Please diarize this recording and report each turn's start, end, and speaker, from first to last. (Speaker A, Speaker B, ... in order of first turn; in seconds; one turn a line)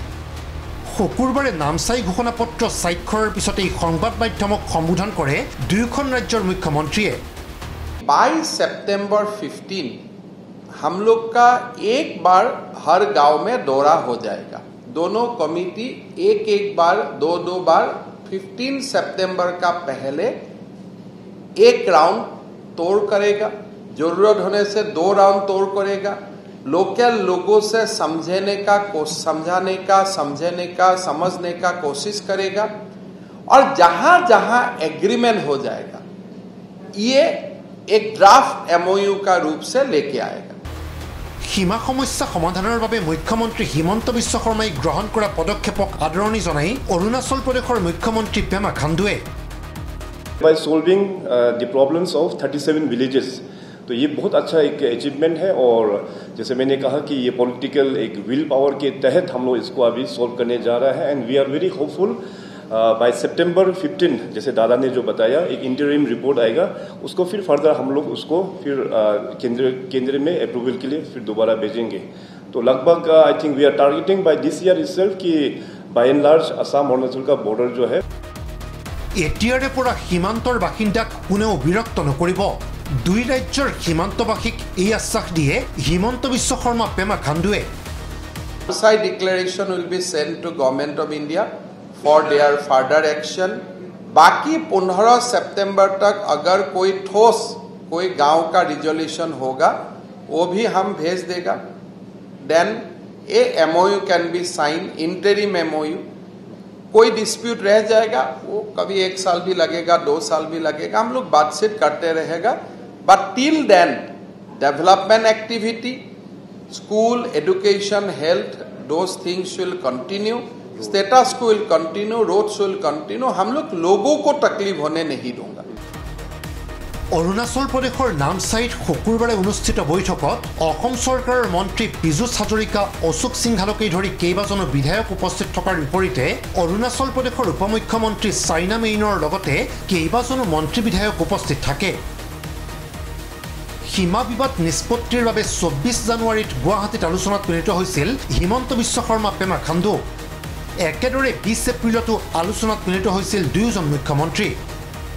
Speaker A: 0.9-7.2
Speaker B: 8.0-10.0
Speaker B: 10.8-20.4
Speaker B: 21.6-32.7
Speaker B: 33.5-36.0
Speaker B: 37.0-40.6
Speaker A: 41.5-49.2
Speaker C: 50.4-62.2
Speaker C: 62.7-78.0
Speaker A: 79.2-87.7
Speaker B: 88.7-93.6
Speaker B: 94.1-101.6
Speaker B: 102.4-106.1
Speaker B: 106.9-116.0
Speaker B: 116.7-125.6
Speaker A: 127.1-142.0
Speaker A: 143.9-150.0
Speaker A: 150.8-154.6